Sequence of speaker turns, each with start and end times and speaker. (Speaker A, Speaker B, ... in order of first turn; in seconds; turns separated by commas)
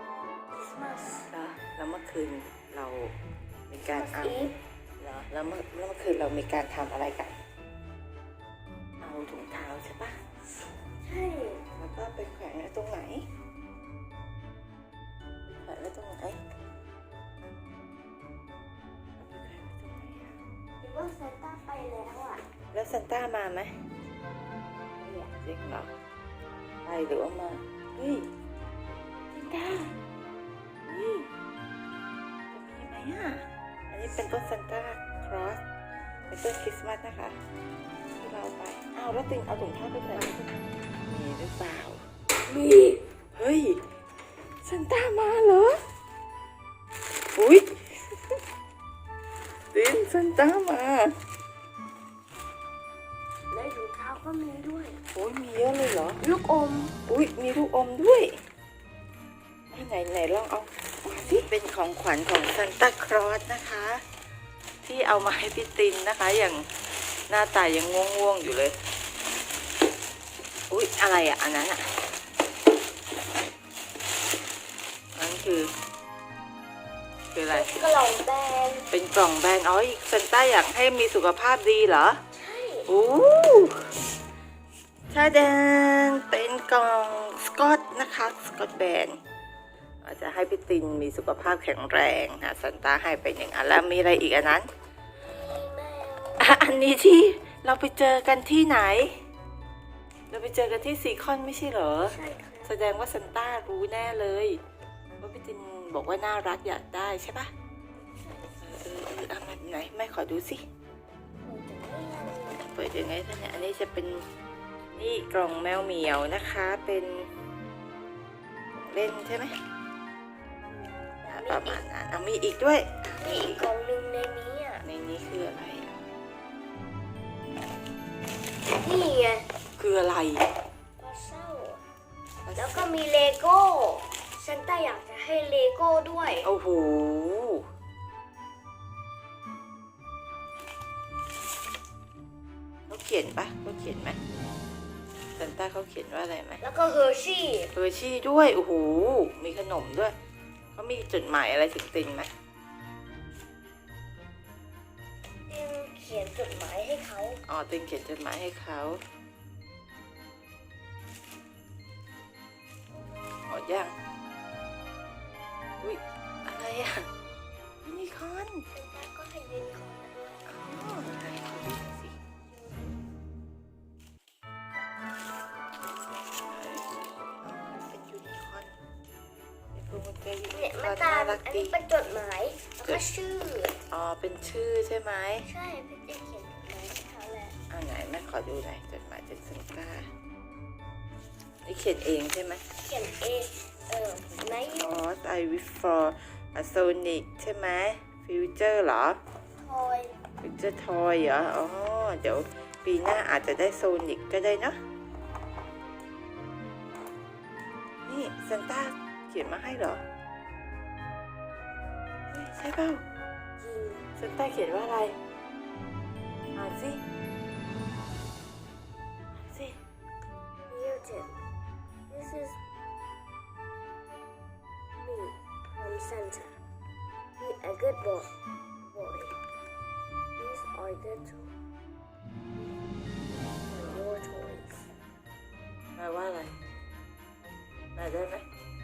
Speaker A: 0.5-1.3, Speaker B: 1.3-3.1, Speaker B: 3.7-4.5, Speaker A: 3.9-4.5, Speaker B: 5.0-7.3, Speaker B: 9.0-10.3, Speaker A: 11.0-11.6, Speaker B: 11.8-13.2, Speaker B: 15.5-16.4, Speaker B: 19.2-20.4, Speaker A: 20.8-22.4, Speaker B: 22.7-23.7, Speaker A: 25.0-25.3, Speaker B: 25.4-25.9, Speaker B: 26.9-28.3, Speaker B: 29.3-29.9, Speaker B: 30.9-31.3, Speaker B: 32.5-35.6, Speaker B: 36.3-37.4, Speaker B: 38.2-40.5, Speaker B: 41.1-42.0, Speaker A: 42.5-43.0, Speaker B: 43.3-43.8, Speaker B: 44.6-45.8, Speaker B: 47.3-48.4, Speaker B: 49.7-51.1, Speaker A: 53.5-55.0, Speaker B: 55.1-56.2, Speaker A: 56.2-56.9, Speaker B: 57.0-58.4, Speaker B: 59.7-64.0, Speaker A: 61.1-61.5, Speaker B: 64.8-66.7, Speaker B: 67.3-68.8, Speaker B: 70.7-71.8, Speaker B: 75.1-75.7, Speaker B: 77.3-77.7, Speaker A: 77.5-78.9, Speaker B: 78.9-82.2, Speaker A: 82.3-82.9, Speaker B: 82.9-83.9, Speaker B: 85.1-89.2, Speaker B: 90.0-94.7, Speaker A: 95.3-96.6, Speaker B: 96.4-99.2, Speaker B: 100.3-104.6, Speaker A: 102.0-102.7, Speaker B: 105.2-107.5, Speaker B: 108.6-110.6, Speaker A: 111.4-112.6, Speaker B: 112.5-114.2, Speaker B: 115.0-117.3, Speaker B: 118.8-119.6, Speaker A: 120.7-121.8, Speaker B: 121.3-123.3, Speaker A: 123.2-124.8, Speaker B: 124.8-126.0, Speaker A: 128.7-129.5, Speaker B: 129.8-130.5, Speaker A: 131.0-131.8, Speaker B: 132.4-132.9, Speaker A: 132.5-136.5, Speaker B: 136.4-137.7, Speaker B: 142.9-144.2, Speaker B: 145.4-146.6, Speaker A: 146.6-147.7, Speaker B: 147.7-150.1, Speaker B: 150.7-152.3, Speaker A: 155.5-157.4, Speaker B: 157.5-159.0, Speaker B: 163.5-163.9, Speaker B: 165.8-167.1, Speaker B: 167.8-168.7, Speaker A: 168.7-170.6, Speaker B: 170.5-172.2, Speaker A: 172.5-173.0, Speaker B: 176.4-178.7, Speaker B: 179.7-181.7, Speaker A: 180.5-183.8, Speaker B: 183.9-185.5, Speaker A: 185.4-187.6, Speaker B: 187.7-190.1, Speaker B: 191.6-192.6, Speaker A: 192.8-194.9, Speaker B: 194.6-199.2, Speaker A: 199.6-200.2, Speaker B: 200.4-204.8, Speaker B: 208.1-210.0, Speaker B: 212.3-213.0, Speaker A: 213.6-214.0, Speaker B: 214.2-215.2, Speaker B: 216.5-217.0, Speaker B: 219.3-219.8, Speaker A: 220.7-221.4, Speaker A: 222.1-222.6, Speaker A: 225.0-226.6, Speaker A: 227.4-228.3, Speaker A: 228.9-229.4, Speaker A: 230.4-231.5, Speaker A: 233.7-234.9, Speaker B: 235.9-236.5, Speaker B: 237.9-238.4